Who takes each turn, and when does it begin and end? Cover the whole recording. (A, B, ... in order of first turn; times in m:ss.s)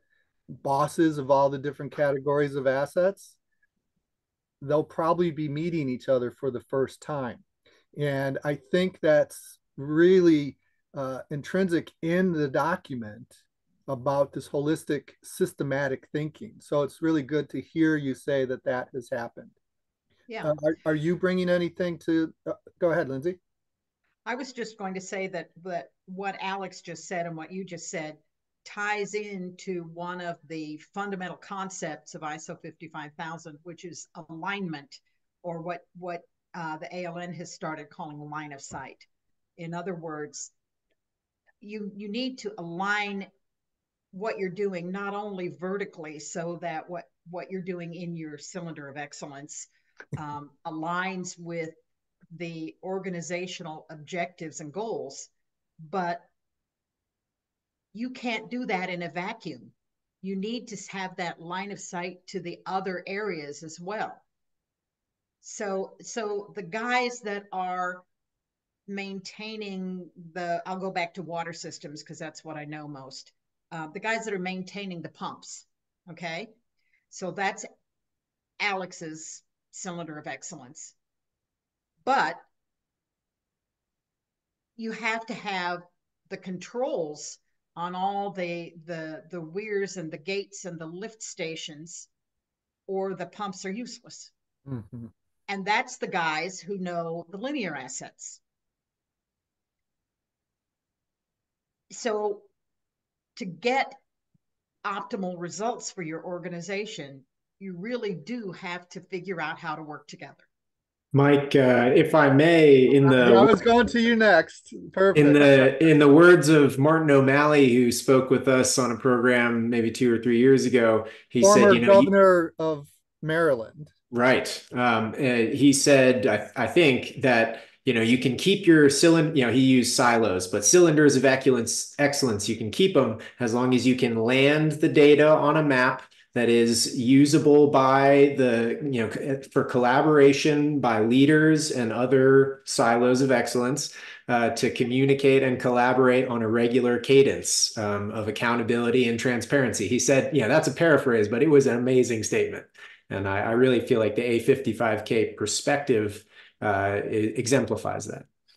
0:00.6-0:03.4 A
0:04.6-0:07.4 A
0:07.9-0:19.5 A
0:20.3-0:20.5 B
0:20.4-0:23.4 A
0:24.2-0:40.5 B
0:41.6-0:43.3 B
0:44.1-0:51.8 B
0:52.3-0:55.3 B
0:55.8-0:56.3 B
0:57.9-1:04.2 B
1:05.4-1:08.0 B
1:08.9-1:16.5 B
1:17.1-1:17.7 B
1:18.6-1:20.9 B
1:22.0-1:22.4 B
1:24.8-1:32.1 B
1:32.9-1:34.3 B
1:34.6-1:35.1 A
1:35.5-1:38.4 B
1:41.9-1:42.5 B
1:43.4-1:44.0 B
1:44.8-1:50.4 B
1:51.1-1:53.6 C
1:53.2-1:55.8 A
1:55.1-2:02.1 C
2:01.4-2:03.9 A
2:04.1-2:38.3 C